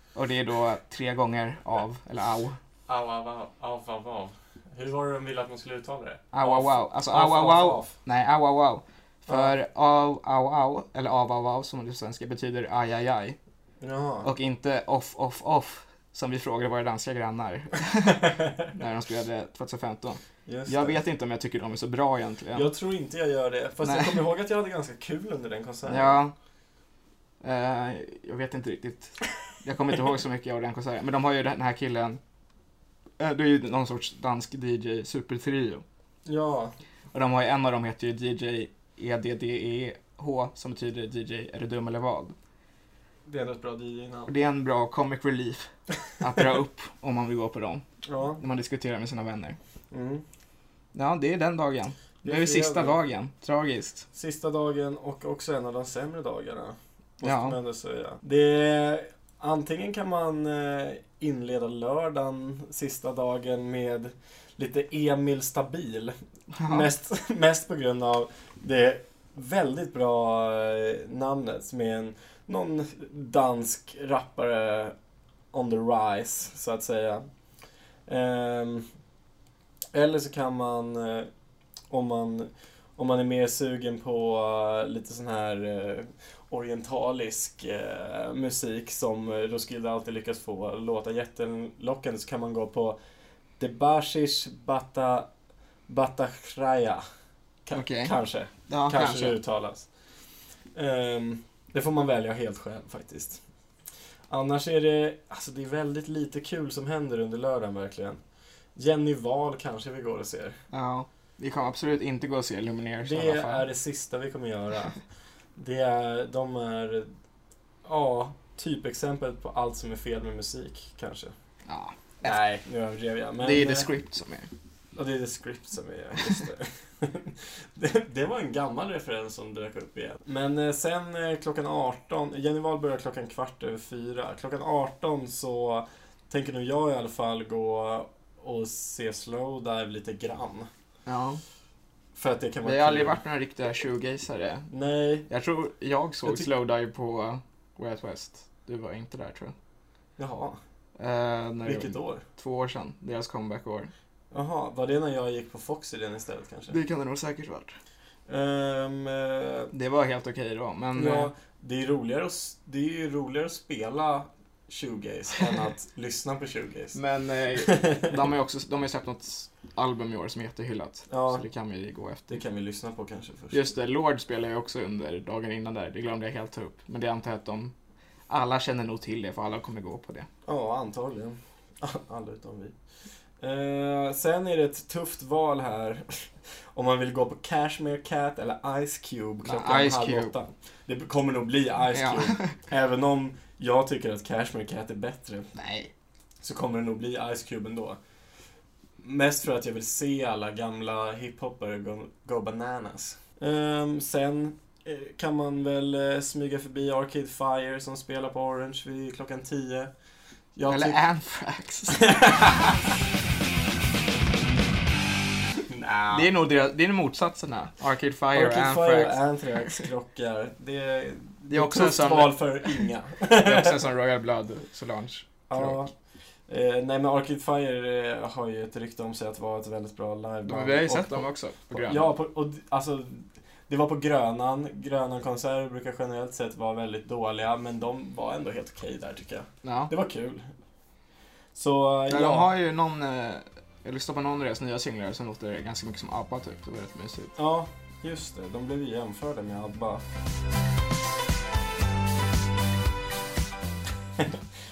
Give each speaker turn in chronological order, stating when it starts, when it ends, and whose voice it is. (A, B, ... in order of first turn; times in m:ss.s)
0:00.2-0:02.6 A
0:02.9-0:08.0 B
0:06.3-0:13.4 A
0:09.3-0:09.5 B
0:13.8-0:14.3 B
0:14.2-0:22.7 A
0:20.5-0:21.0 B
0:22.5-0:26.2 B
0:23.8-0:24.2 A
0:25.8-0:26.3 A
0:27.4-0:32.2 A
0:33.2-0:35.8 A
0:36.2-0:36.8 B
0:37.1-0:42.4 A
0:43.3-0:44.3 B
0:44.3-0:47.8 A
0:48.0-0:48.4 B
0:48.4-0:49.6 A
0:49.9-0:50.2 B
0:50.9-0:54.1 A
0:52.2-0:53.0 B
0:54.1-1:15.0 B
0:57.2-0:57.6 A
1:06.6-1:06.9 A
1:15.5-1:17.3 B
1:18.1-1:18.9 B
1:19.9-1:21.3 B
1:21.9-1:33.0 B
1:33.6-1:35.3 B
1:35.9-1:37.0 B
1:37.6-1:39.9 B
1:37.7-1:38.2 A
1:38.7-1:39.4 A
1:40.8-1:43.4 B
1:44.3-1:48.2 B
1:48.8-1:50.6 B
1:50.7-1:53.7 A
1:53.0-1:55.0 B
1:55.6-1:57.1 B
1:57.8-2:01.3 B
2:01.7-2:02.4 A
2:02.2-2:03.9 B
2:03.4-2:04.5 A
2:05.0-2:20.7 B
2:21.1-2:21.4 A
2:22.2-2:23.2 B
2:22.6-2:24.7 A
2:24.7-2:25.3 B
2:25.3-2:29.6 A
2:26.2-2:26.5 B
2:30.2-2:30.6 B
2:31.0-2:33.9 A
2:31.6-2:32.2 B
2:34.3-2:36.8 B
2:36.7-2:37.8 A
2:38.3-2:39.7 B
2:39.7-2:41.3 A
2:41.0-2:47.0 B
2:47.0-2:52.4 A
2:47.6-2:48.1 B
2:51.1-2:51.5 B
2:52.3-2:53.6 B
2:53.5-2:57.7 A
2:58.3-3:00.3 A
3:00.5-3:02.7 B
3:03.4-3:15.5 B
3:09.4-3:10.3 A
3:11.9-3:12.5 A
3:15.6-3:15.9 A
3:16.4-3:18.0 B
3:19.0-3:29.9 B
3:30.5-3:31.0 B
3:30.7-3:32.5 A
3:32.0-3:32.7 B
3:35.6-3:36.3 B
3:36.1-3:39.2 A
3:38.3-3:43.9 B
3:41.5-3:45.9 A
3:45.5-3:45.9 B
3:46.5-4:00.5 B
3:50.5-3:52.1 A
3:59.6-3:59.9 A
4:01.6-4:02.5 B
4:02.1-4:07.4 A
4:07.4-4:10.0 B